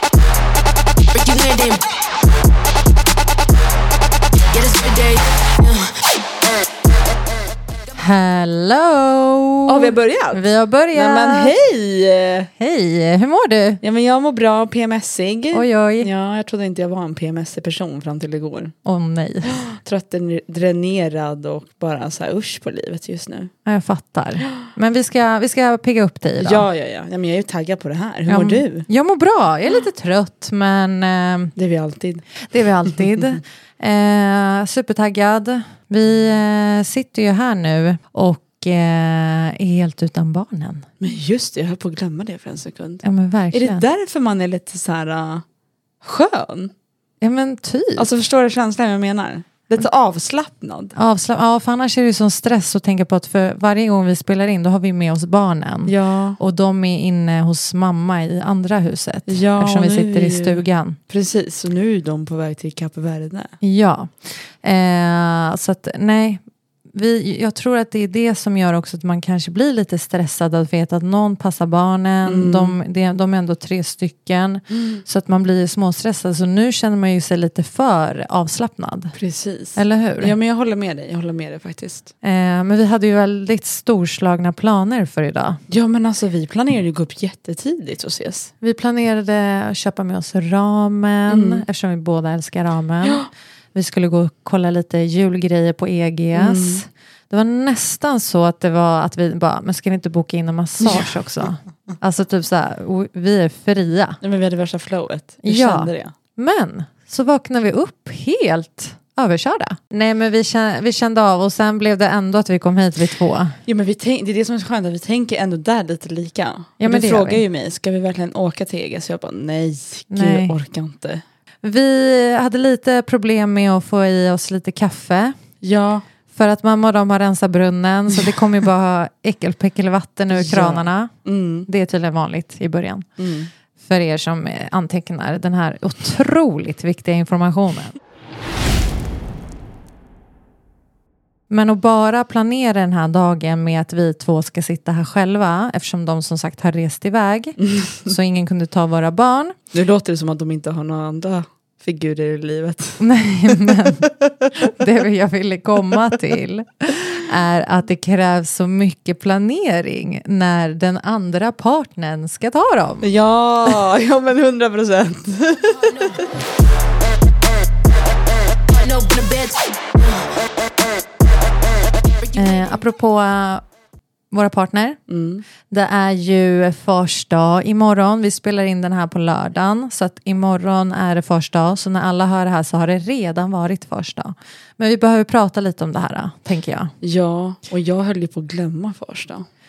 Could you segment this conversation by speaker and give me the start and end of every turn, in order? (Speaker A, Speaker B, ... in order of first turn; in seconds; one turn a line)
Speaker A: 1.1-1.8
Speaker A: 4.5-5.9
Speaker B: 7.9-11.5
Speaker C: 9.7-12.5
Speaker B: 12.6-13.8
Speaker C: 13.8-18.7
Speaker B: 15.5-16.1
Speaker B: 18.8-19.7
Speaker C: 19.5-23.5
Speaker B: 23.6-26.6
Speaker C: 26.4-28.9
Speaker B: 28.3-31.5
Speaker C: 31.6-32.3
Speaker B: 32.4-40.9
Speaker C: 41.0-45.4
Speaker B: 43.0-43.8
Speaker C: 46.0-46.7
Speaker B: 47.2-48.1
Speaker C: 48.0-50.9
Speaker B: 50.9-61.0
Speaker C: 55.9-56.4
Speaker C: 59.3-63.5
Speaker B: 63.6-79.1
Speaker C: 72.2-72.8
Speaker C: 74.7-75.0
Speaker C: 79.1-82.1
Speaker B: 79.7-80.3
Speaker B: 82.2-85.6
Speaker C: 85.7-88.5
Speaker B: 88.6-104.2
Speaker C: 91.3-91.6
Speaker C: 93.0-93.3
Speaker C: 96.3-96.8
Speaker C: 100.8-101.1
Speaker C: 104.2-106.1
Speaker B: 105.4-113.6
Speaker C: 113.7-121.2
Speaker B: 116.8-117.4
Speaker B: 120.1-120.5
Speaker B: 121.6-125.3
Speaker C: 125.6-126.0
Speaker B: 126.3-131.1
Speaker C: 130.3-131.7
Speaker B: 131.7-133.1
Speaker C: 133.2-133.5
Speaker B: 133.8-137.9
Speaker B: 141.5-149.6
Speaker C: 147.6-148.1
Speaker C: 149.7-153.9
Speaker B: 153.0-163.1
Speaker C: 163.0-166.1
Speaker A: 168.7-170.2
Speaker A: 172.2-172.7
Speaker B: 172.3-173.6
Speaker B: 174.3-175.0
Speaker C: 175.1-175.4
Speaker B: 175.7-186.9
Speaker C: 187.0-189.5